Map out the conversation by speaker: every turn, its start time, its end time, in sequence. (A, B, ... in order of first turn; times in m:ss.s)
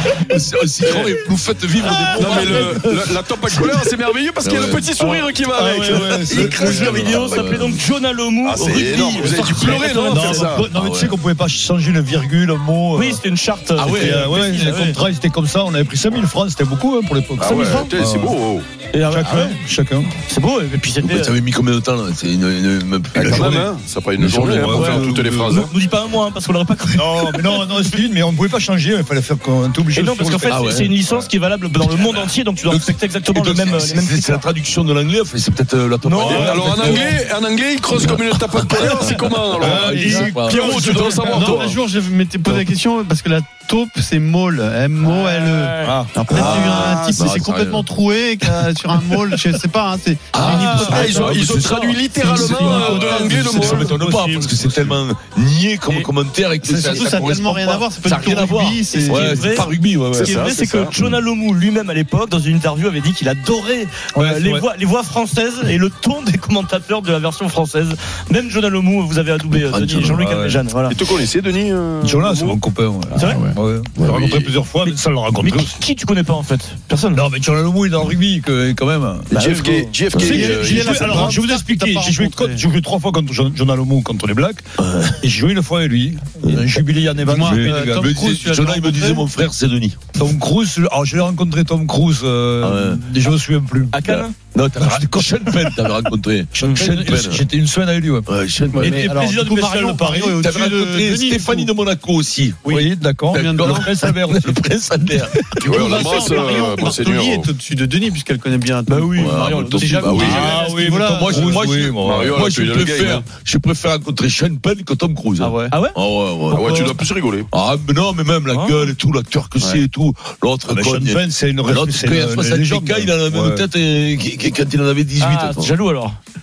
0:00.2-0:03.1 A
0:00.8-0:01.2 B
0:02.0-0:02.7 C
0:02.1-0:07.7 B
0:04.4-0:05.2 A
0:05.5-0:10.6 C
0:05.8-0:07.3 D
0:07.1-0:07.8 A
0:08.4-0:10.7 B
0:08.6-0:09.0 A
0:09.6-0:13.2 D
0:10.6-0:11.2 A
0:12.9-0:15.0 C
0:13.8-0:14.7 A
0:13.9-0:18.4 D
0:17.4-0:18.7 B
0:17.4-0:17.9 C
0:18.9-0:19.6 C
0:19.0-0:20.1 D
0:20.2-0:21.3 C
0:21.0-0:23.6 A
0:23.1-0:23.7 D
0:23.1-0:25.7 B
0:24.2-0:24.8 A
0:24.5-0:25.6 D
0:24.7-0:28.0 C
0:26.9-0:31.2 D
0:29.9-0:34.4 C
0:30.5-0:31.2 A
0:31.8-0:37.2 A
0:36.0-0:36.6 C
0:36.2-0:37.1 D
0:36.2-0:41.8 B
0:37.9-0:41.6 A
0:39.5-0:41.4 D
0:40.0-0:40.3 E
0:41.3-0:51.4 E
0:45.0-0:47.0 C
0:45.8-0:46.3 D
0:46.3-0:47.9 A
0:46.5-0:46.9 B
0:50.3-1:01.2 A
0:50.4-0:51.1 C
0:50.8-0:53.9 B
0:52.2-0:54.4 E
0:54.5-0:55.0 D
0:56.6-0:59.7 E
0:58.9-1:11.0 C
1:00.1-1:00.9 B
1:04.1-1:04.6 D
1:09.5-1:10.2 A
1:10.0-1:10.6 D
1:10.8-1:12.6 B
1:12.0-1:15.8 D
1:13.2-1:13.4 C
1:13.2-1:14.5 B
1:14.8-1:17.2 C
1:17.1-1:21.4 D
1:19.3-1:20.9 B
1:19.3-1:22.1 C
1:20.1-1:20.5 A
1:20.3-1:22.6 E
1:21.9-1:24.6 D
1:24.8-1:25.2 A
1:25.2-1:28.2 D
1:26.4-1:26.8 A
1:27.2-1:29.2 E
1:27.4-1:30.0 A
1:30.2-1:34.0 D
1:32.6-1:33.0 A
1:33.9-1:34.3 C
1:34.0-1:37.4 A
1:34.8-1:35.9 D
1:36.5-1:38.3 D
1:36.6-1:36.8 C
1:38.2-1:39.0 A
1:38.7-1:41.7 E
1:38.8-1:40.4 C
1:38.8-1:39.1 D
1:40.4-1:46.3 A
1:42.6-1:44.1 E
1:42.7-1:44.4 D
1:45.5-1:51.7 E
1:45.6-1:47.5 B
1:48.9-1:51.2 C
1:49.2-2:05.7 A
1:50.0-1:50.6 B
1:50.1-1:52.4 D
1:51.9-1:53.2 B
1:55.4-1:55.7 E
1:55.7-1:56.9 C
1:56.5-1:57.5 B
1:58.5-1:58.9 C
2:00.7-2:03.6 D
2:05.2-2:06.2 C